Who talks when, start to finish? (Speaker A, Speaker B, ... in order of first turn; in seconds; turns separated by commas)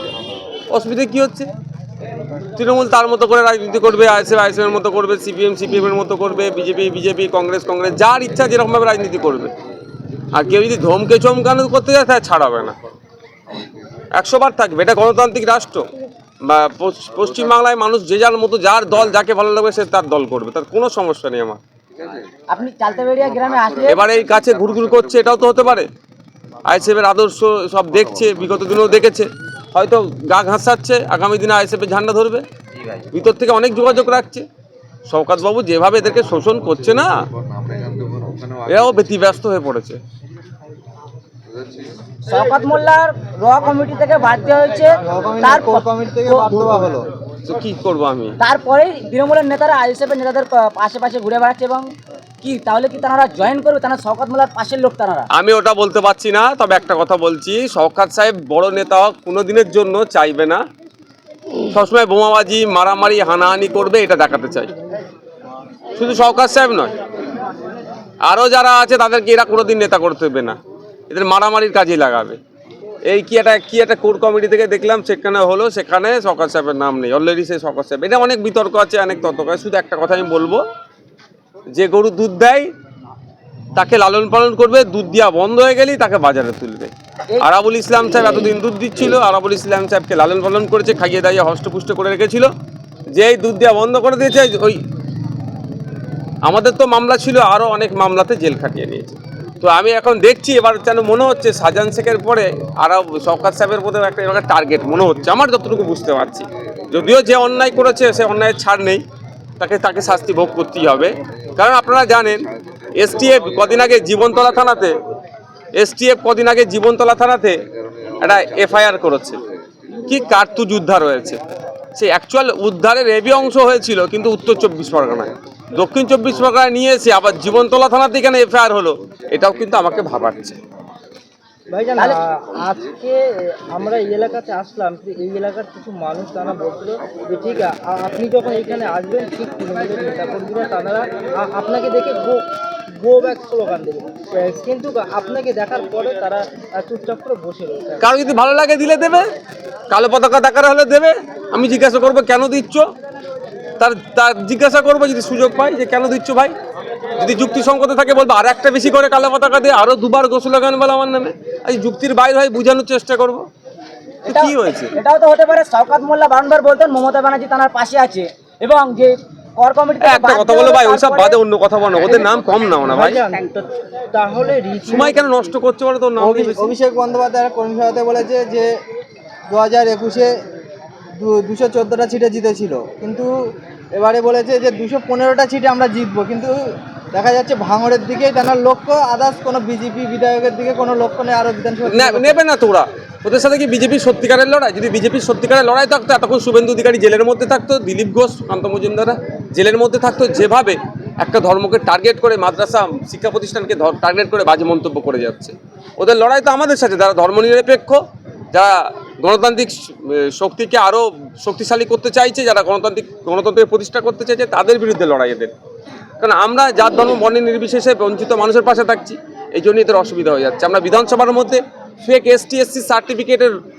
Speaker A: 0.7-1.5, Speaker A: 2.6-9.5, Speaker A: 10.3-12.8, Speaker A: 14.2-15.8, Speaker A: 16.4-21.6, Speaker B: 22.5-24.0, Speaker A: 23.9-25.9, Speaker A: 26.7-32.5, Speaker A: 33.1-34.5, Speaker A: 35.1-37.1, Speaker A: 38.7-40.0, Speaker B: 42.3-46.7, Speaker C: 45.0-47.1, Speaker A: 47.5-48.4, Speaker B: 48.4-51.9, Speaker B: 52.4-55.3, Speaker A: 55.3-60.6, Speaker A: 61.7-64.7, Speaker A: 66.0-66.9, Speaker A: 68.3-70.6, Speaker A: 71.1-72.4, Speaker A: 73.1-80.6, Speaker A: 81.7-82.7, Speaker A: 83.8-92.5, Speaker A: 93.1-94.8, Speaker A: 96.5-109.0, Speaker A: 109.6-112.5, Speaker A: 113.0-115.0, Speaker A: 115.8-117.6, Speaker A: 118.2-119.4, Speaker A: 120.1-121.4, Speaker A: 122.0-130.6, Speaker D: 131.7-148.1, Speaker A: 148.0-149.2, Speaker A: 149.9-152.8, Speaker A: 153.8-156.5, Speaker A: 157.2-163.4, Speaker A: 164.2-164.9, Speaker B: 164.3-171.4, Speaker A: 170.0-173.2, Speaker D: 172.9-175.4, Speaker A: 174.9-176.7, Speaker C: 176.2-178.7, Speaker C: 179.5-180.3, Speaker C: 181.2-183.3, Speaker C: 183.9-186.6, Speaker C: 187.1-192.4, Speaker A: 191.9-208.0, Speaker A: 208.5-215.5, Speaker A: 216.2-223.5